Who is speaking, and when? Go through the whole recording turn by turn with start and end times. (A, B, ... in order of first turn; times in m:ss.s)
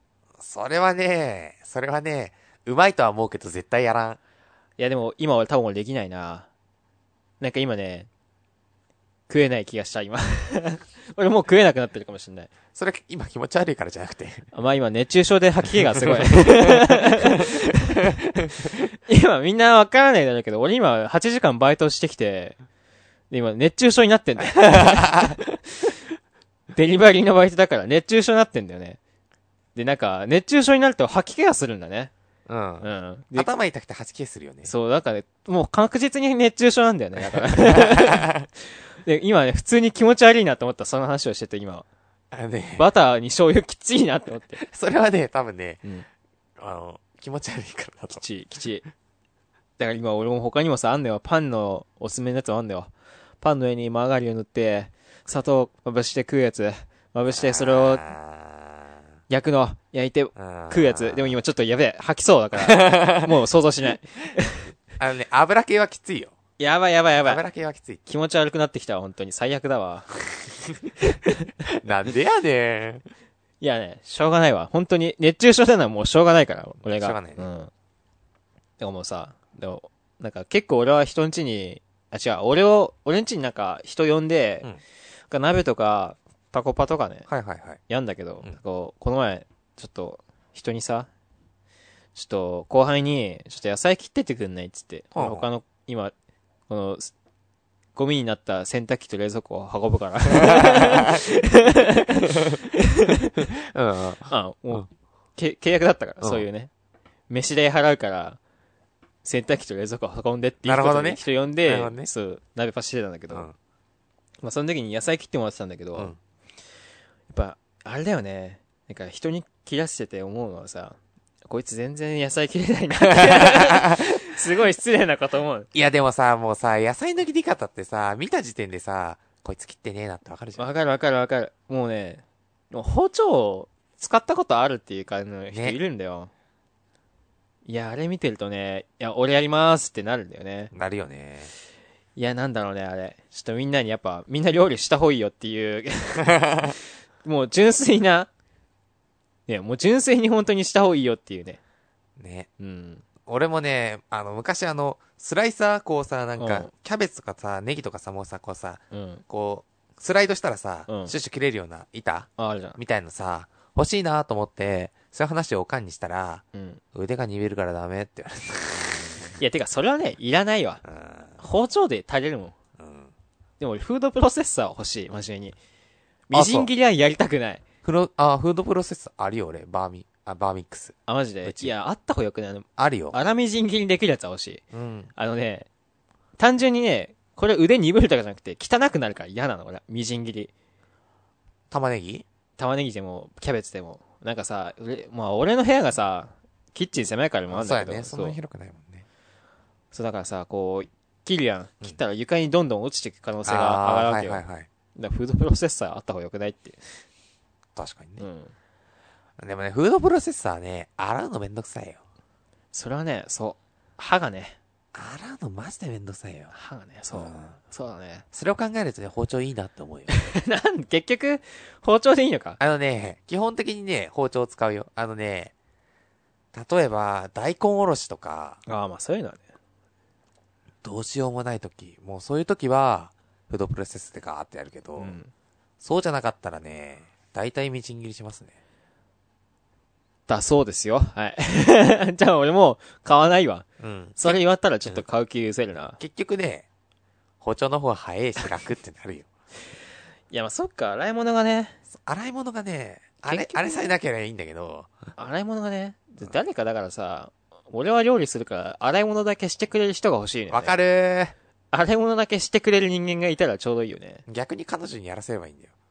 0:00.4-0:04.2 A
0:04.8-0:06.5 B
0:07.4-0:08.1 B
0:09.3-0:12.5 B
0:12.7-0:14.5 A
0:14.5-0:18.2 B
0:16.0-0:17.2 A
0:19.1-0:22.6 B
0:23.3-0:25.4 B
0:24.6-0:25.4 A
0:26.8-0:29.0 B
0:29.8-0:32.1 B
0:32.5-0:34.7 A
0:32.8-0:33.5 B
0:34.6-0:41.9 B
0:37.3-0:38.5 A
0:42.3-0:42.8 A
0:42.8-0:44.6 B
0:44.6-0:45.8 A
0:46.6-0:48.2 A
0:48.2-0:48.9 B
0:49.8-0:58.1 B
0:57.3-0:59.0 A
0:59.3-1:04.7 B
1:00.4-1:01.4 A
1:02.6-1:03.4 A
1:05.0-1:06.4 A
1:06.6-1:07.4 B
1:07.2-1:08.0 A
1:08.1-1:10.2 B
1:11.1-1:11.4 B
1:11.8-1:13.0 A
1:13.6-1:17.7 B
1:16.9-1:17.5 A
1:18.8-1:24.7 B
1:25.3-1:27.3 B
1:27.3-1:27.8 A
1:27.9-1:31.1 B
1:32.2-1:36.1 B
1:35.1-1:35.5 A
1:36.7-1:37.1 B
1:38.0-1:43.4 B
1:40.4-1:41.1 A
1:43.4-1:44.8 A
1:44.3-1:46.7 B
1:47.3-1:48.4 B
1:49.2-1:53.5 B
1:50.6-1:52.1 A
1:54.4-1:56.1 B
1:57.3-2:05.7 B
2:03.1-2:04.3 A
2:05.7-2:10.7 A
2:10.6-2:16.3 B
2:15.5-2:15.8 A
2:17.7-2:20.7 B
2:20.7-2:21.5 A
2:22.2-2:28.3 B
2:26.2-2:26.7 A
2:29.5-2:31.6 B
2:32.2-2:32.5 A
2:32.6-2:33.0 B
2:33.2-2:49.4 A
2:36.4-2:36.7 B
2:38.9-2:39.2 B
2:40.9-2:41.1 B
2:42.4-2:42.8 B
2:46.5-2:46.8 B
2:49.4-2:50.8 B
2:50.9-2:51.4 A
2:51.4-2:52.6 B
2:52.8-2:53.1 A
2:53.6-2:55.6 B
2:56.3-2:57.6 B
2:56.3-2:56.7 A
2:57.8-3:01.7 A
3:01.1-3:04.6 B
3:02.8-3:03.2 A
3:04.7-3:05.1 A
3:05.2-3:05.7 B
3:06.4-3:10.5 B
3:11.7-3:12.2 A
3:12.6-3:18.4 B
3:17.5-3:19.0 A
3:19.9-3:24.4 B
3:23.4-3:24.7 A
3:25.0-3:27.0 B
3:27.8-3:28.3 A
3:28.2-3:28.5 B
3:29.4-3:32.0 A
3:32.7-3:34.6 B
3:34.9-3:36.5 A
3:36.5-3:38.2 B
3:37.1-3:37.6 A
3:38.3-3:40.1 A
3:40.1-3:42.6 B
3:42.6-3:45.5 A
3:46.5-3:48.6 A
3:48.7-3:49.5 B
3:50.8-3:55.2 A
3:55.0-3:55.3 B
3:55.8-3:58.6 A
4:00.3-4:03.6 B
4:03.8-4:05.0 A
4:04.2-4:06.0 B
4:06.0-4:06.7 A
4:07.4-4:09.3 A
4:10.3-4:11.8 B
4:11.9-4:14.9 A
4:13.2-4:13.9 B
4:15.2-4:20.8 B
4:20.5-4:21.3 A
4:21.7-4:24.2 B
4:24.3-4:25.7 A